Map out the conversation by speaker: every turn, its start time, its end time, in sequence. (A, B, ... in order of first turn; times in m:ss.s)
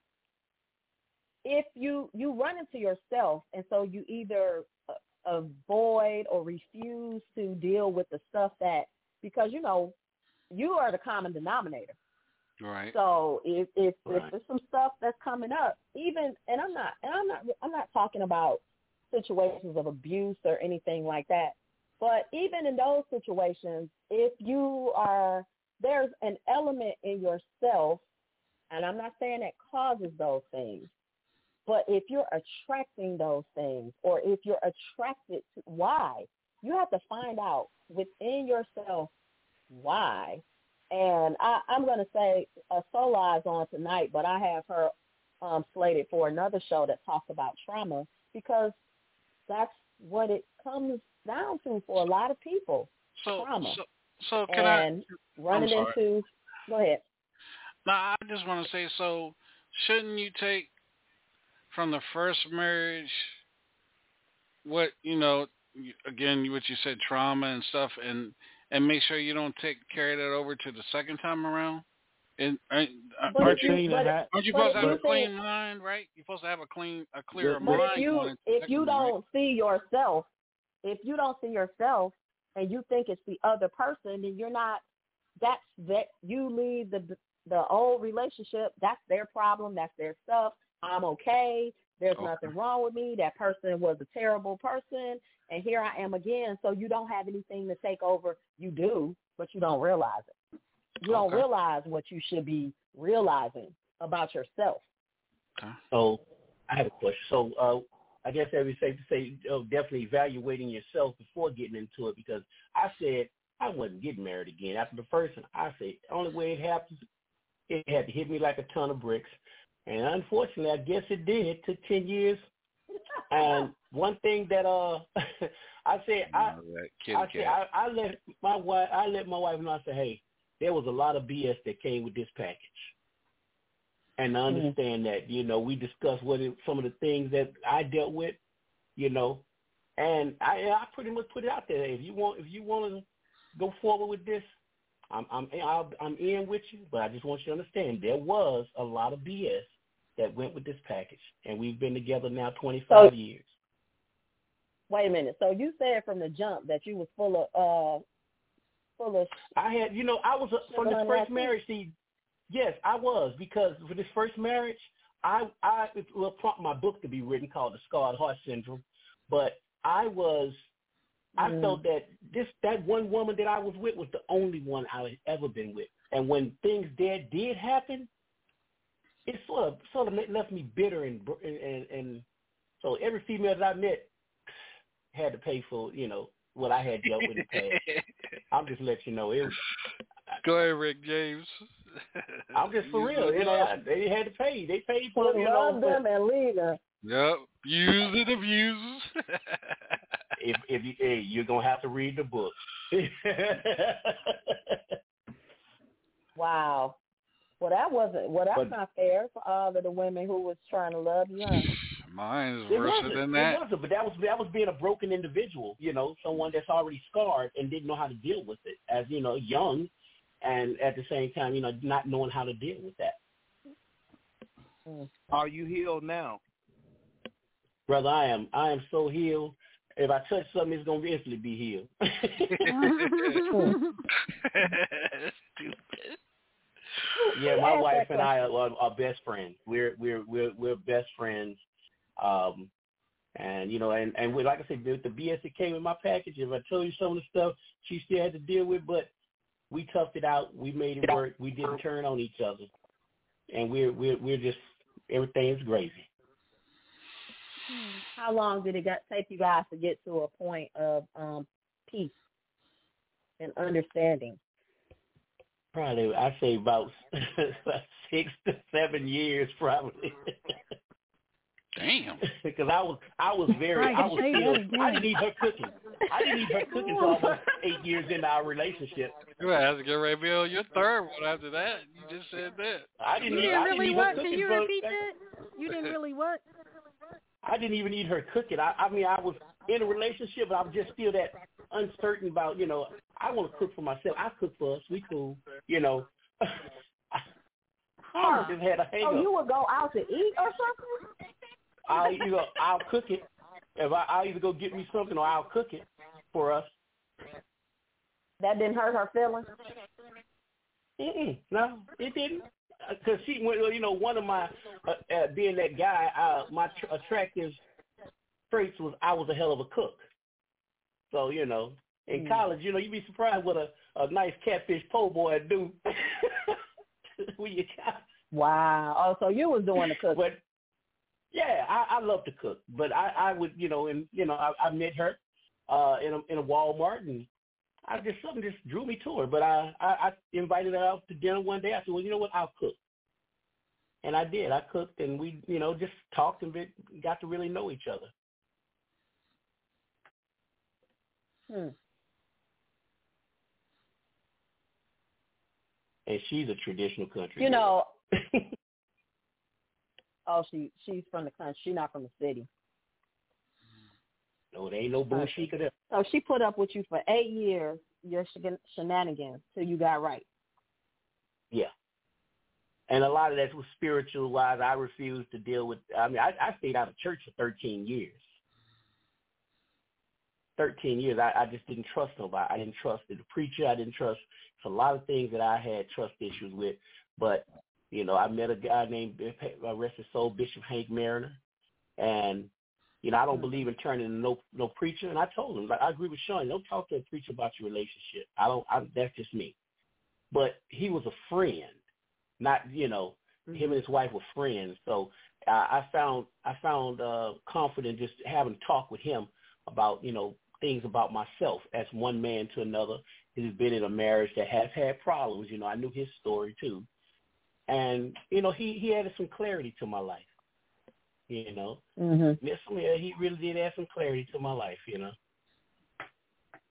0:01.4-0:10.0 A
0:10.5-0:12.0 A
0:12.6-0:13.0 B
0:12.9-0:28.0 A
0:28.7-0:30.9 A
0:31.7-0:39.1 A
0:39.7-0:48.8 A
0:49.5-0:53.8 A
0:53.2-0:56.0 B
0:54.5-0:57.0 A
0:57.9-1:00.7 B
1:01.7-1:03.4 B
1:04.6-1:11.8 B
1:12.4-1:19.1 B
1:13.3-1:15.3 A
1:13.4-1:15.0 C
1:17.4-1:17.9 C
1:17.6-1:20.3 A
1:20.8-1:24.8 A
1:25.4-1:40.3 A
1:32.2-1:32.5 B
1:41.0-1:44.8 A
1:41.1-1:41.4 B
1:45.9-1:57.0 D
1:57.7-2:02.4 D
2:03.3-2:06.6 D
2:06.3-2:07.6 B
2:07.1-2:12.9 D
2:14.2-2:18.4 D
2:14.5-2:14.7 A
2:19.0-2:19.4 D
2:20.0-2:24.5 D
2:25.1-2:33.5 D
2:34.9-2:38.0 A
2:39.0-2:39.4 A
2:39.5-2:41.9 D
2:40.7-2:41.5 A
2:42.5-2:50.6 D
2:51.4-2:51.8 A
2:51.4-2:58.1 D
2:59.3-3:02.2 D
3:02.8-3:04.1 D
3:05.1-3:07.8 D
3:08.5-3:09.6 D
3:10.4-3:13.7 B
3:12.5-3:16.0 D
3:15.1-3:16.8 A
3:17.0-3:20.0 B
3:20.4-3:24.8 D
3:26.4-3:27.0 A
3:27.6-3:31.7 A
3:32.0-3:33.6 B
3:32.7-3:39.9 D
3:40.4-3:43.2 D
3:45.3-3:46.4 C
3:47.9-3:52.7 D
3:52.7-3:54.0 E
3:52.9-3:53.4 B
3:54.3-3:56.2 B
3:57.2-3:58.3 A
3:57.3-4:01.6 D
4:02.2-4:02.7 D
4:03.4-4:09.1 D
4:09.7-4:12.7 D
4:13.5-4:16.1 D
4:18.1-4:22.1 A
4:23.4-4:24.4 A
4:25.7-4:30.6 D
4:31.8-4:32.2 B
4:32.3-4:39.2 D
4:33.8-4:35.1 E
4:39.4-4:44.3 B
4:43.0-4:45.0 D
4:43.3-4:46.4 E
4:47.4-4:57.2 D
4:58.1-4:59.3 D
4:58.2-5:01.1 A
5:01.9-5:06.7 D
5:08.4-5:09.6 A
5:11.0-5:17.6 D
5:18.5-5:20.0 D
5:21.1-5:26.6 D
5:22.2-5:22.4 A
5:27.4-5:28.0 D
5:28.3-5:30.2 A
5:30.1-5:30.4 D
5:31.3-5:37.3 D
5:37.9-5:42.8 D
5:44.0-5:48.1 D
5:51.5-5:51.8 A
5:56.1-5:57.8 D
5:57.4-5:57.9 A
6:00.3-6:02.5 A
6:04.5-6:05.7 D
6:05.1-6:10.3 A
6:12.9-6:18.2 D
6:20.6-6:31.4 D
6:32.0-6:32.5 D
6:33.0-6:39.6 D
6:40.3-6:41.8 D
6:42.4-6:56.9 D
6:43.5-6:43.8 A
6:57.7-7:00.3 D
7:01.3-7:01.8 D
7:02.0-7:02.4 A
7:02.4-7:05.1 D